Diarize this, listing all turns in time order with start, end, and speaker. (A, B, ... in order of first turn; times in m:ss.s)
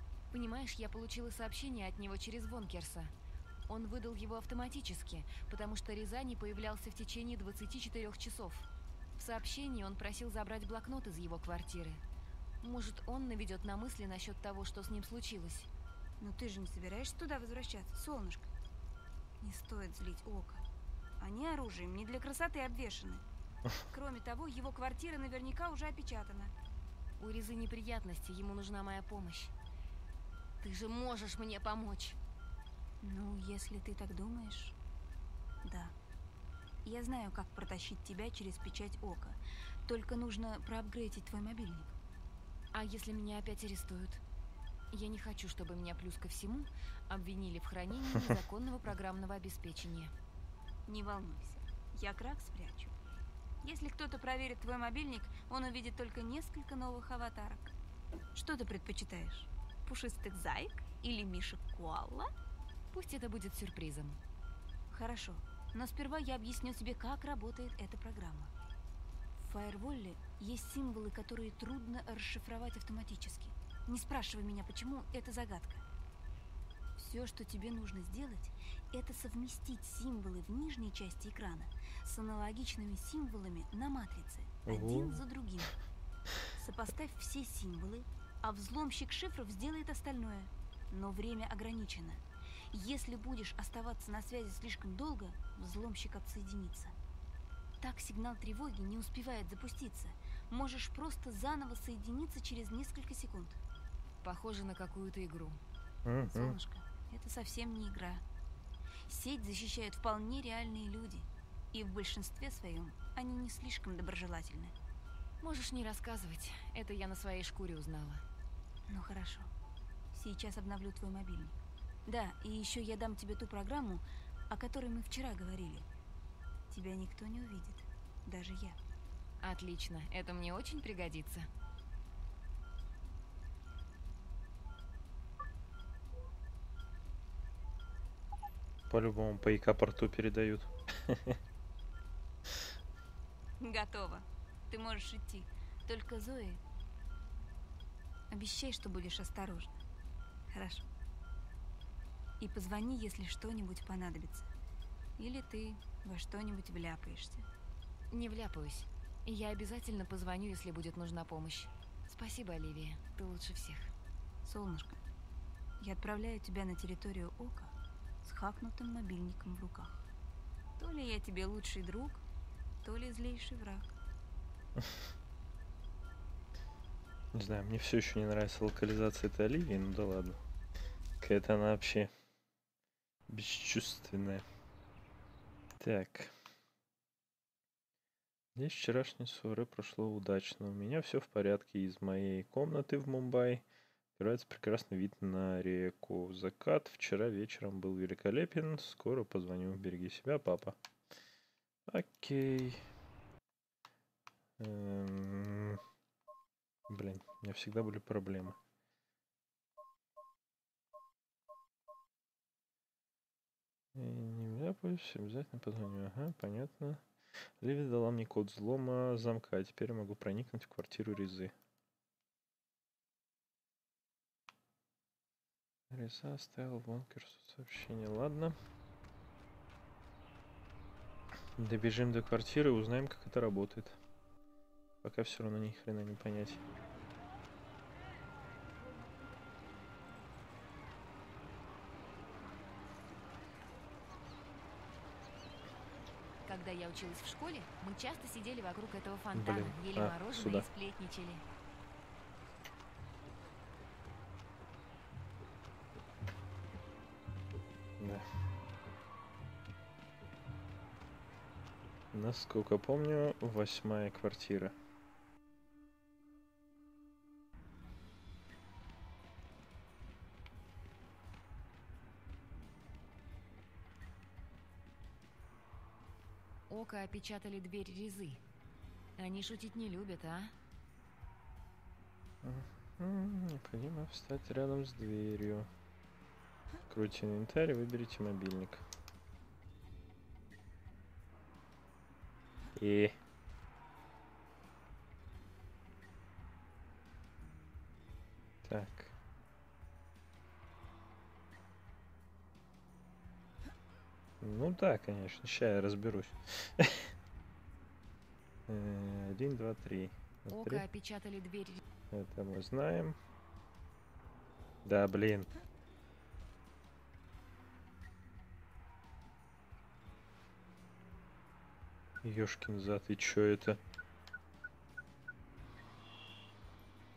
0:00.3-0:03.1 A
0:03.7-0:12.0 A
0:12.6-0:15.7 A
0:16.2-0:18.5 B
0:19.4-0:20.6 B
0:21.2-0:23.2 B
0:23.9-0:26.5 B
0:27.2-0:29.5 A
0:30.6-0:32.2 A
0:33.0-0:34.8 B
0:35.6-0:36.0 B
0:36.8-0:42.0 B
0:42.7-0:44.2 A
0:44.9-0:50.1 A
0:50.9-0:53.0 B
0:53.6-0:57.8 B
0:58.3-1:02.3 B
1:02.9-1:04.2 A
1:04.9-1:08.5 B
1:09.4-1:15.8 B
1:17.0-1:25.8 B
1:24.6-1:25.2 C
1:26.6-1:36.9 B
1:37.8-1:43.6 B
1:44.2-1:45.6 A
1:46.1-1:46.6 C
1:46.3-1:48.2 B
1:49.1-1:54.8 B
1:55.4-1:58.2 A
1:58.9-1:59.5 B
2:00.1-2:05.9 B
2:06.7-2:08.8 B
2:09.4-2:11.5 A
2:18.9-2:21.4 C
2:23.6-2:26.6 B
2:28.3-2:29.8 B
2:30.5-2:30.9 B
2:32.4-2:34.5 B
2:35.2-2:37.5 B
2:38.1-2:43.9 A
2:44.4-2:45.0 B
2:45.8-2:50.1 B
2:50.8-2:52.2 B
2:52.8-2:54.0 B
2:57.3-3:00.4 C
3:01.2-3:02.1 C
3:03.3-3:04.4 C
3:05.8-3:06.3 C
3:08.6-3:13.6 C
3:14.2-3:20.8 C
3:21.9-3:22.8 C
3:24.6-3:25.8 C
3:26.9-3:28.6 C
3:34.0-3:37.0 C
3:37.6-3:41.5 C
3:45.9-3:48.6 C
3:51.6-3:54.0 C
3:55.0-3:56.6 C
4:06.5-4:11.4 A
4:09.4-4:10.7 C
4:18.0-4:18.2 C
4:22.1-4:24.8 C
4:36.7-4:38.4 A
4:39.2-4:40.5 A
4:42.4-4:45.7 C
4:46.9-4:48.8 C
4:52.8-4:53.2 C
4:58.6-4:59.1 C
5:04.4-5:07.1 C
5:08.7-5:10.8 C
5:10.5-5:11.8 A
5:12.1-5:13.2 C
5:14.8-5:15.5 C
5:22.2-5:23.8 C